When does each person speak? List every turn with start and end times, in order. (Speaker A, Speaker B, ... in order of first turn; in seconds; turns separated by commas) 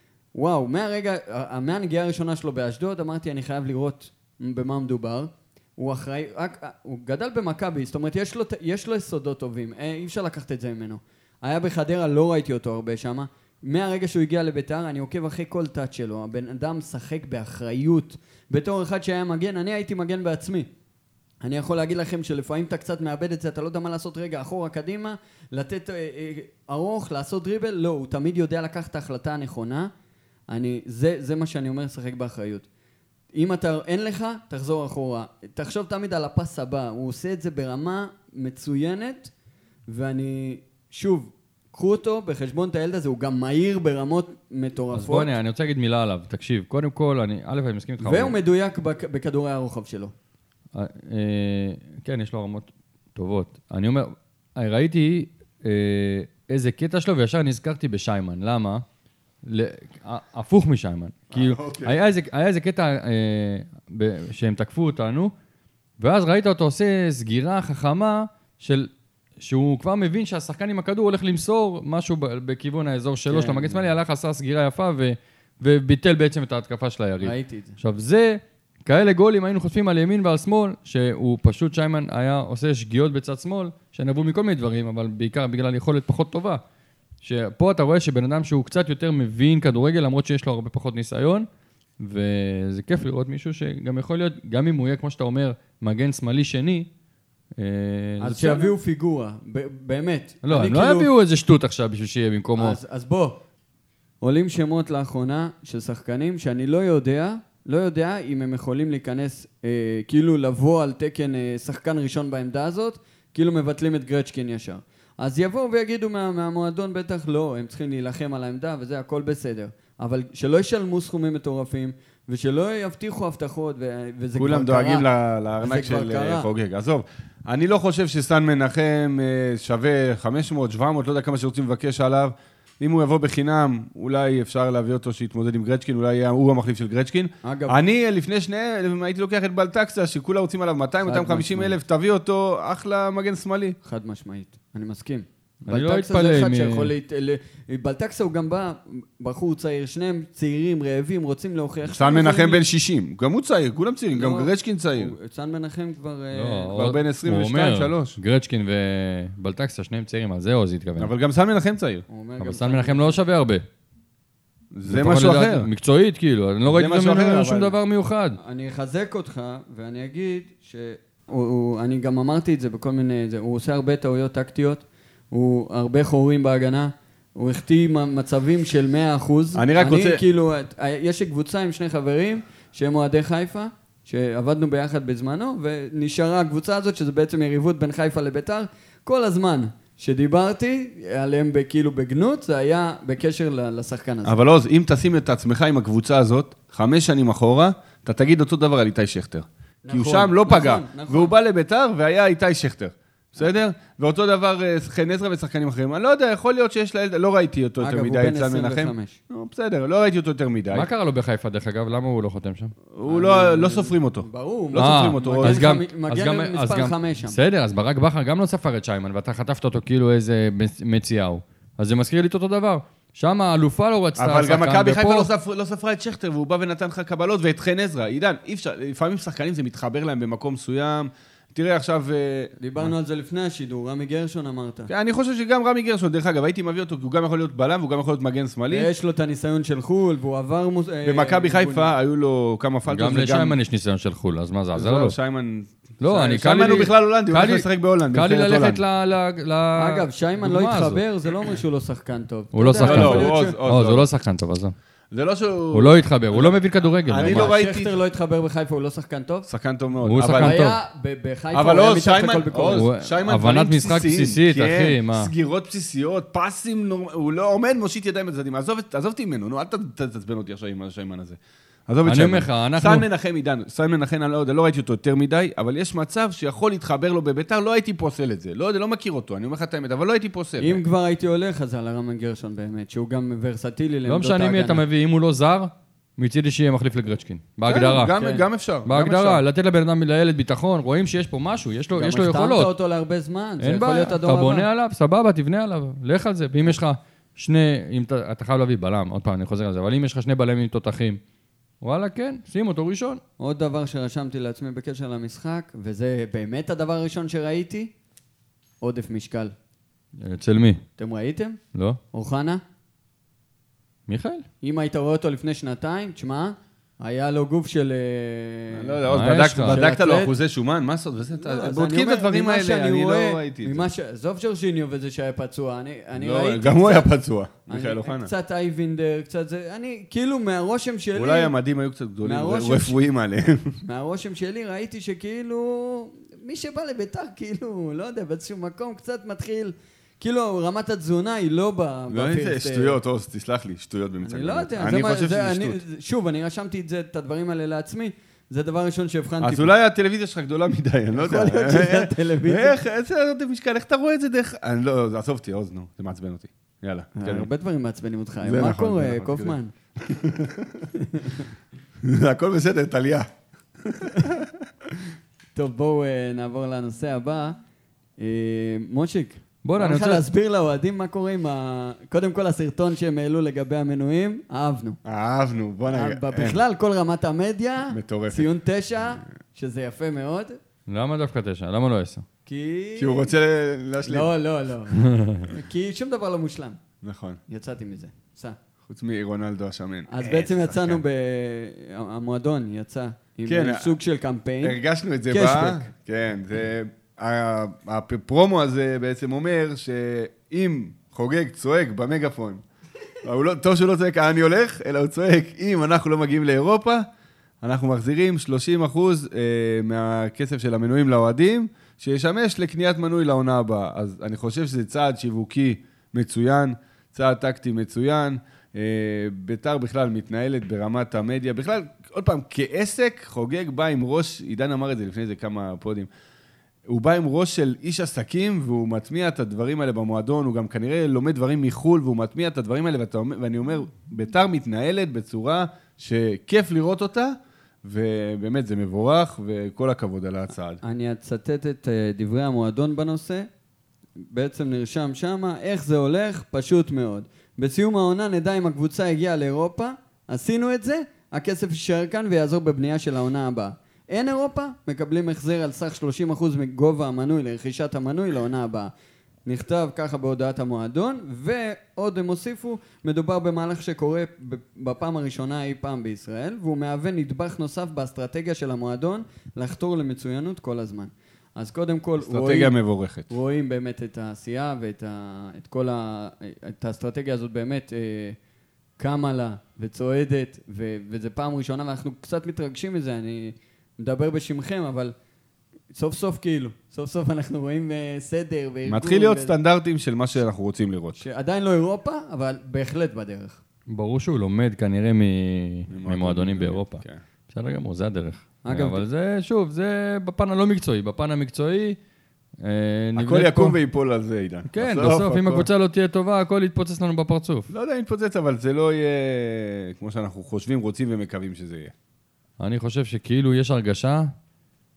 Speaker A: 0.3-20.7, Speaker A: 21.4-29.9, Speaker A: 30.5-32.7, Speaker A: 33.4-39.3, Speaker A: 39.9-45.3, Speaker B: 44.9-48.4, Speaker A: 48.0-50.1, Speaker B: 50.7-58.8, Speaker B: 59.4-65.3, Speaker C: 61.3-62.0, Speaker B: 66.0-86.6, Speaker A: 73.3-73.8, Speaker A: 77.2-77.8, Speaker B: 87.2-91.5, Speaker B: 92.0-96.9, Speaker B: 97.6-98.7, Speaker A: 98.2-101.1, Speaker B: 100.5-102.8, Speaker A: 102.6-103.4, Speaker A: 104.2-125.1, Speaker C: 124.4-143.8, Speaker A: 125.6-126.5, Speaker A: 137.4-137.8, Speaker A: 141.0-141.8, Speaker A: 143.8-152.6, Speaker B: 145.7-146.9, Speaker C: 151.9-155.1, Speaker A: 154.1-156.7, Speaker B: 156.3-161.1, Speaker C: 156.7-158.2, Speaker C: 161.0-162.1, Speaker A: 162.1-163.2, Speaker B: 162.4-163.6, Speaker C: 164.7-165.7, Speaker B: 164.9-168.4, Speaker C: 166.7-167.8, Speaker A: 168.4-194.4, Speaker C: 179.6-180.2, Speaker C: 194.2-210.9, Speaker A: 199.8-201.3, Speaker A: 207.8-209.2, Speaker B: 210.7-212.7, Speaker C: 212.9-215.7, Speaker A: 213.1-217.4, Speaker B: 214.8-225.3, Speaker C: 224.2-232.9, Speaker A: 232.6-234.9, Speaker C: 234.9-238.9, Speaker A: 238.7-241.9, Speaker C: 241.0-243.6, Speaker B: 242.9-245.2, Speaker C: 244.8-248.8, Speaker B: 246.0-251.0, Speaker A: 249.8-253.6, Speaker B: 252.5-254.8, Speaker C: 252.8-254.1, Speaker C: 255.1-257.9, Speaker B: 255.7-257.5, Speaker A: 257.2-259.5, Speaker C: 259.5-260.6, Speaker B: 260.0-260.8, Speaker A: 260.2-262.9, Speaker C: 261.5-280.8, Speaker B: 262.7-265.3, Speaker B: 272.1-273.1, Speaker A: 280.6-284.8, Speaker B: 284.1-292.7, Speaker C: 287.7-289.4, Speaker A: 291.9-294.7, Speaker B: 293.6-301.2, Speaker B: 301.8-303.2, Speaker A: 303.4-307.9, Speaker A: 308.8-309.5, Speaker B: 310.2-310.8, Speaker A: 311.0-311.6, Speaker A: 312.1-312.6, Speaker B: 314.1-314.4, Speaker A: 314.6-319.0, Speaker C: 318.7-323.9, Speaker B: 319.1-319.8, Speaker A: 319.7-320.3, Speaker A: 321.4-327.1, Speaker C: 326.2-328.3, Speaker A: 327.7-331.5, Speaker C: 331.1-333.8, Speaker A: 332.2-333.0, Speaker A: 333.8-343.0, Speaker C: 342.1-345.8, Speaker A: 344.2-349.7, Speaker C: 349.4-357.5, Speaker A: 351.2-352.8, Speaker A: 357.1-359.7, Speaker C: 358.4-360.9, Speaker A: 360.9-361.5, Speaker C: 362.0-363.3, Speaker C: 363.8-365.0, Speaker A: 365.6-367.6, Speaker A: 368.2-375.0, Speaker B: 369.6-370.2, Speaker C: 375.0-376.6, Speaker A: 375.9-380.6, Speaker C: 377.9-378.5, Speaker B: 380.9-382.2, Speaker A: 382.5-383.3, Speaker C: 383.0-384.3, Speaker A: 384.0-386.8, Speaker B: 384.9-385.5, Speaker C: 387.0-387.4, Speaker A: 387.5-388.6, Speaker C: 388.9-391.0, Speaker A: 390.1-395.9, Speaker C: 393.5-393.9, Speaker C: 394.6-402.6, Speaker C: 403.2-407.1, Speaker C: 407.6-426.1, Speaker C: 426.9-440.8, Speaker A: 440.8-443.5, Speaker A: 444.2-458.9, Speaker A: 459.5-472.7, Speaker C: 472.2-473.3, Speaker A: 473.3-478.4, Speaker A: 479.0-485.1, Speaker A: 485.9-489.5, Speaker C: 488.9-491.2, Speaker A: 491.2-493.6, Speaker B: 493.9-502.0, Speaker C: 495.9-497.2, Speaker A: 498.6-499.0, Speaker B: 502.6-503.8, Speaker C: 503.2-505.7, Speaker B: 504.7-507.7, Speaker C: 507.7-511.9, Speaker B: 512.6-514.3